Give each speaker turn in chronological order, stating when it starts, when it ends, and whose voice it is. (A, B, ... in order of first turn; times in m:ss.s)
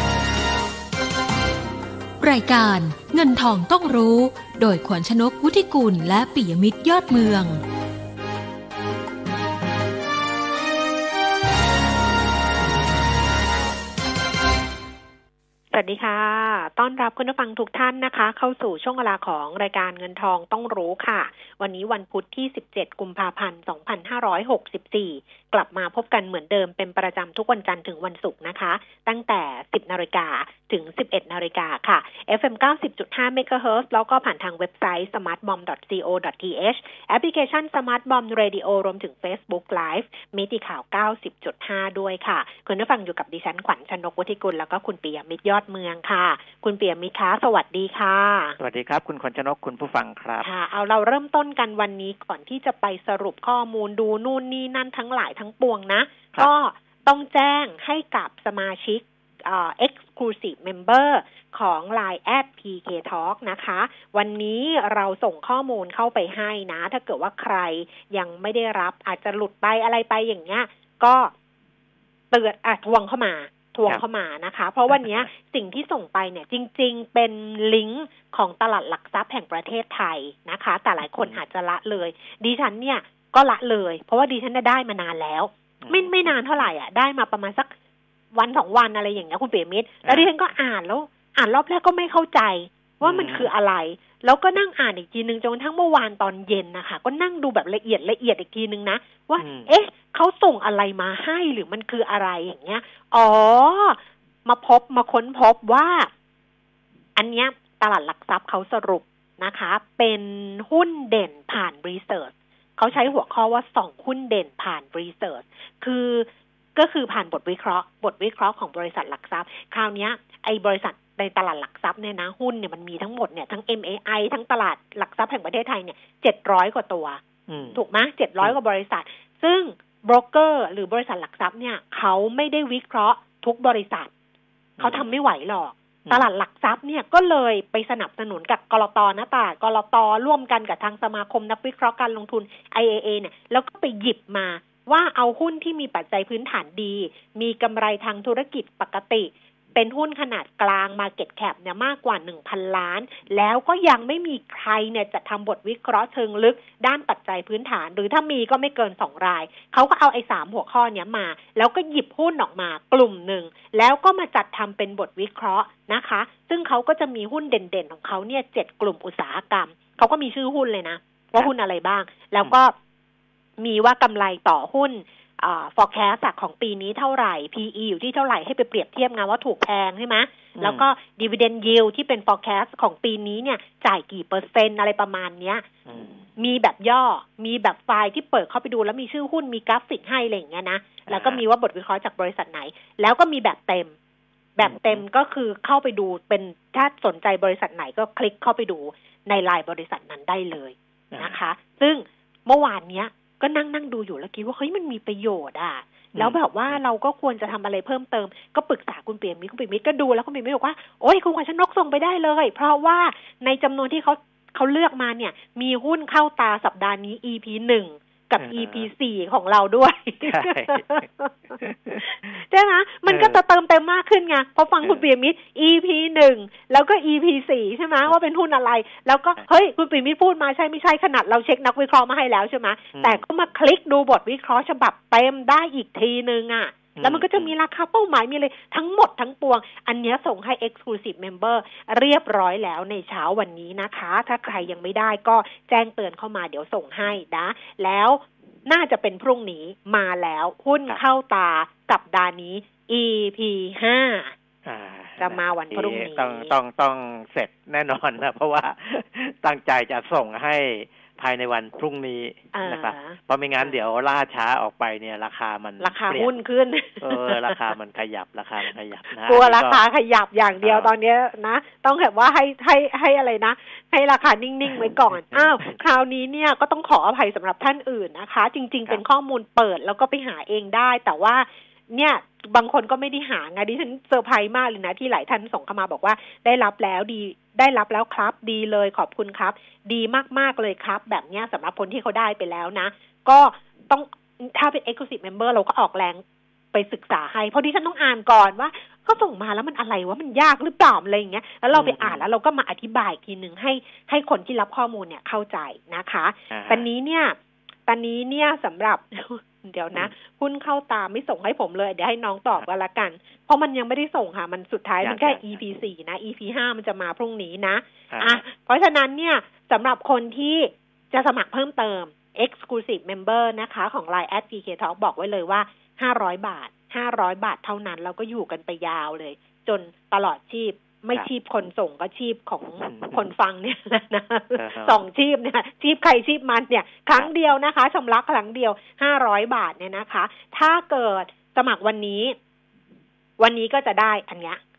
0:02.2-0:07.6 A
0:15.7-0:48.6 B
0:48.6-0:50.5 C
0:50.4-1:11.3 B
1:12.3-1:27.7 B
1:14.9-1:15.2 C
1:21.0-1:21.4 C
1:25.8-1:26.7 C
1:28.3-1:46.1 B
1:30.0-1:30.3 C
1:33.0-1:33.5 C
1:39.4-1:39.7 C
1:47.2-2:07.2 B
2:07.5-2:07.8 C
2:07.7-2:14.1 B
2:14.8-2:15.1 C
2:14.8-2:52.7 B
2:53.6-3:05.6 B
3:00.6-3:00.8 C
3:05.8-3:06.3 C
3:06.4-3:13.9 B
3:11.1-3:11.4 C
3:14.6-4:14.3 B
3:14.6-3:15.0 C
3:21.1-3:21.4 C
3:26.1-3:26.8 C
3:38.4-3:38.9 C
3:40.2-3:40.9 C
3:41.6-3:42.0 C
3:43.1-3:43.4 C
3:52.9-3:53.2 C
3:57.0-3:57.5 C
4:14.6-4:26.3 C
4:15.2-4:16.5 B
4:22.5-4:23.8 B
4:25.8-4:27.6 B
4:27.0-4:29.8 C
4:29.2-5:42.4 B
4:30.6-4:30.9 C
4:35.1-4:35.7 C
5:01.7-5:02.2 C
5:06.5-5:06.8 C
5:15.0-5:15.6 C
5:18.1-5:18.4 C
5:32.8-5:33.3 C
5:34.5-5:35.0 C
5:43.4-5:44.6 B